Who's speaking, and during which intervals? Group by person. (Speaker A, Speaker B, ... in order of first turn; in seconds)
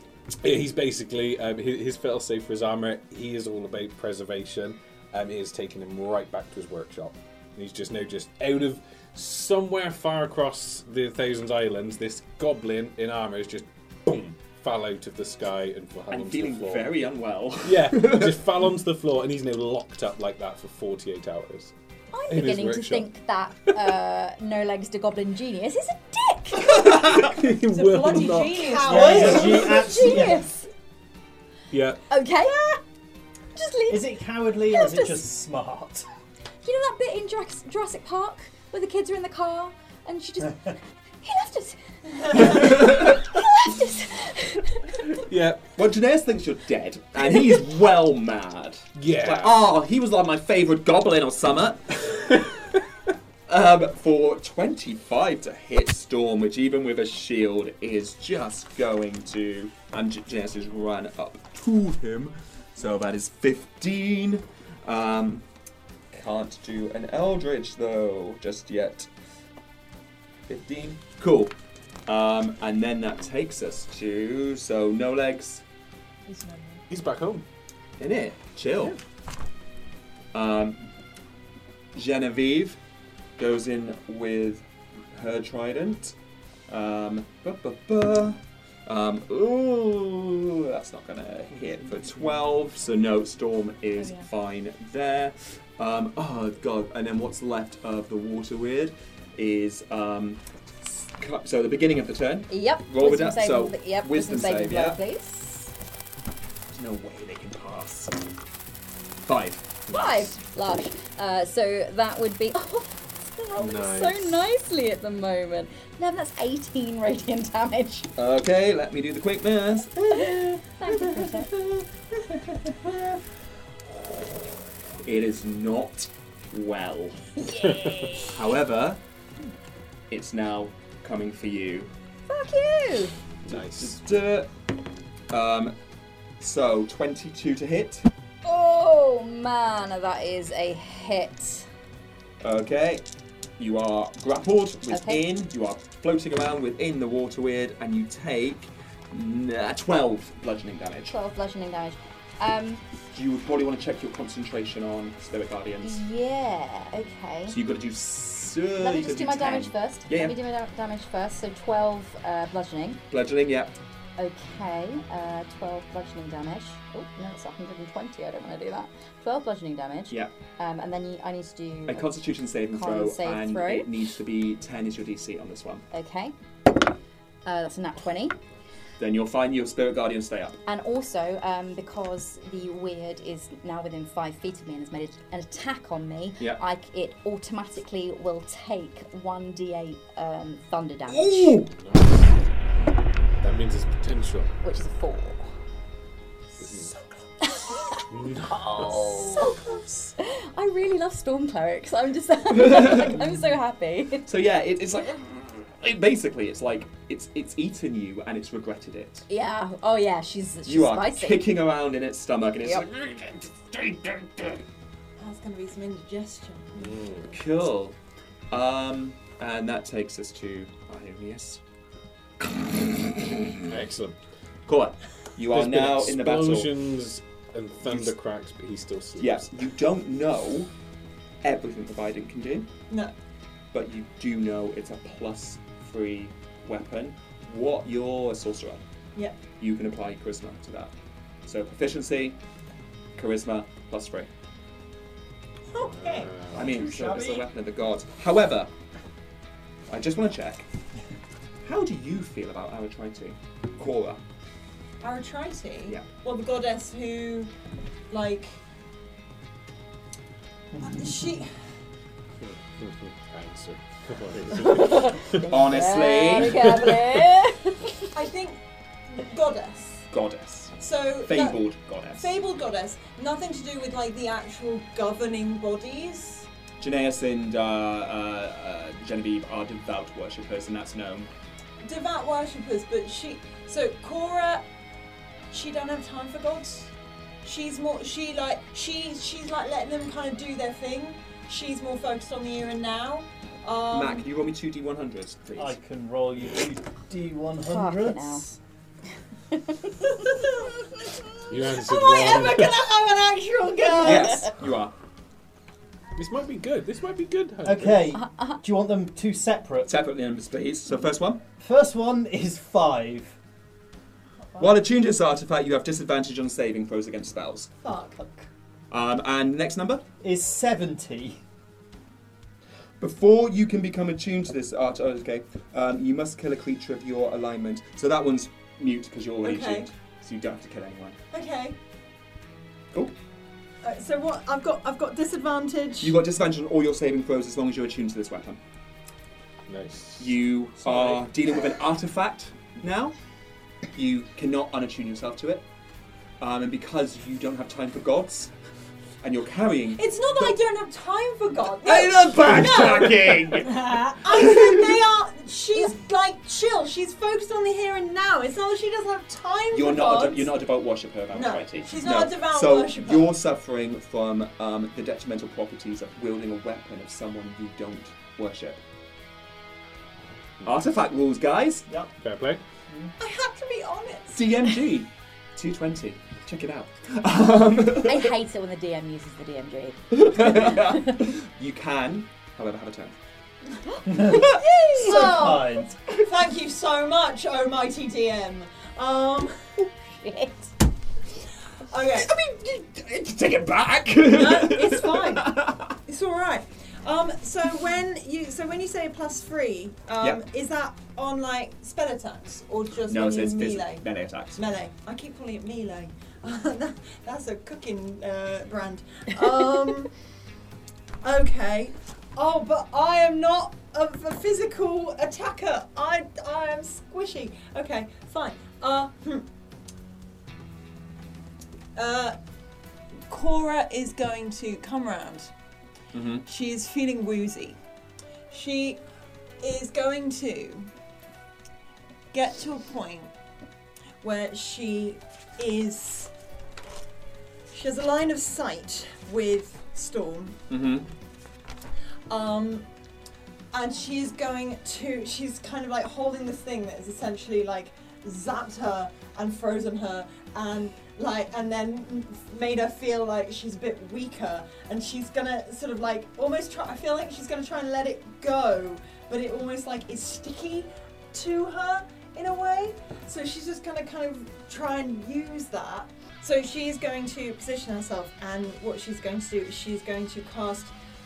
Speaker A: 0.4-16.9, 17.6-21.7, 22.3-23.1, 27.0-29.2, 31.7-32.0, 45.1-45.7, 49.0-49.6, 52.1-52.6, 76.9-77.5, 113.6-114.5, 127.6-128.2, 133.5-134.0, 191.8-192.4, 193.4-194.5, 196.6-196.9, 198.1-199.2, 216.8-217.3, 223.7-224.2, 225.5-229.5, 245.8-246.7, 262.4-265.5, 266.6-266.9, 301.5-302.9, 306.2-308.2, 339.7-340.3, 340.9-341.2, 372.2-372.6
Speaker B: 16.1-18.4, 42.5-42.9, 45.7-52.5, 53.5-65.5, 66.1-69.1, 70.5-71.5, 72.1-75.6, 78.0-79.0, 80.3-80.8, 82.0-82.8, 83.4-86.1, 86.7-105.0, 106.7-108.1, 109.2-109.8, 118.2-121.8, 125.0-127.3, 128.3-129.0, 130.1-131.9, 133.5-134.5, 135.3-135.8, 136.4-138.1, 142.4-143.1, 143.6-151.2, 153.1-156.0, 157.5-160.4, 163.1-163.8, 171.9-175.8, 179.0-180.6, 191.1-191.7, 202.5-203.2, 204.3-209.3, 210.7-214.6, 217.3-218.0, 218.5-221.6, 222.5-223.6, 224.7-226.7, 227.8-228.1, 229.2-230.7, 231.4-232.7, 233.7-238.8, 239.6-240.9, 241.5-242.4, 243.2-244.3, 246.5-248.7, 249.9-250.7, 251.6-254.2, 265.5-267.0, 270.1-272.3, 276.8-281.3, 293.9-295.8, 304.0-304.9, 309.9-311.4, 314.6-317.7, 318.9-320.0, 323.0-331.2, 336.0-338.6, 340.2-343.1, 343.9-345.6, 346.4-348.5, 349.2-350.5, 351.8-355.0, 359.7-368.8, 370.6-371.9, 374.3-378.3, 380.1-383.2, 384.3-384.6, 392.1-395.9, 403.1-404.6, 426.1-426.4, 440.7-441.1
Speaker C: 22.1-27.0, 29.0-30.5, 32.1-32.6, 33.5-35.2, 36.6-45.1, 102.5-105.7, 109.9-118.1, 120.1-121.5, 127.4-128.3, 132.3-133.1, 138.4-141.7, 144.9-145.2, 151.1-152.8, 155.8-157.6, 158.8-163.0, 164.2-173.9, 175.9-176.3, 177.4-178.4, 180.7-191.7, 194.6-195.5, 197.4-199.6, 200.2-204.3, 209.3-211.5, 264.5-268.1, 297.6-298.5, 308.2-308.6, 378.0-381.1, 384.1-385.4, 389.8-390.7
Speaker D: 27.7-29.8, 76.3-76.8, 94.0-94.3, 353.7-354.1
Speaker E: 28.7-30.4, 199.3-200.1, 215.2-217.3, 245.7-246.4, 255.0-257.5, 258.1-258.6, 260.8-261.5, 268.1-270.1, 270.8-271.6, 272.1-276.5, 281.8-284.7, 285.5-286.9, 287.4-294.3, 300.2-304.5, 317.8-318.5, 329.4-329.9, 331.3-331.8, 333.8-336.2, 349.9-353.4, 354.2-360.5, 361.3-363.3, 373.2-374.8, 385.0-389.7, 391.9-392.3, 394.3-404.0, 404.6-410.1, 411.2-419.5, 421.9-422.4, 423.3-425.5, 426.4-427.8, 428.5-429.0, 429.6-430.9, 432.3-433.3, 434.2-436.3, 437.7-440.6, 442.3-442.9, 443.7-470.9
Speaker F: 28.9-30.5, 33.9-36.1, 246.5-247.4, 295.6-298.6, 307.6-309.9, 311.6-313.4, 320.2-321.4, 384.1-385.9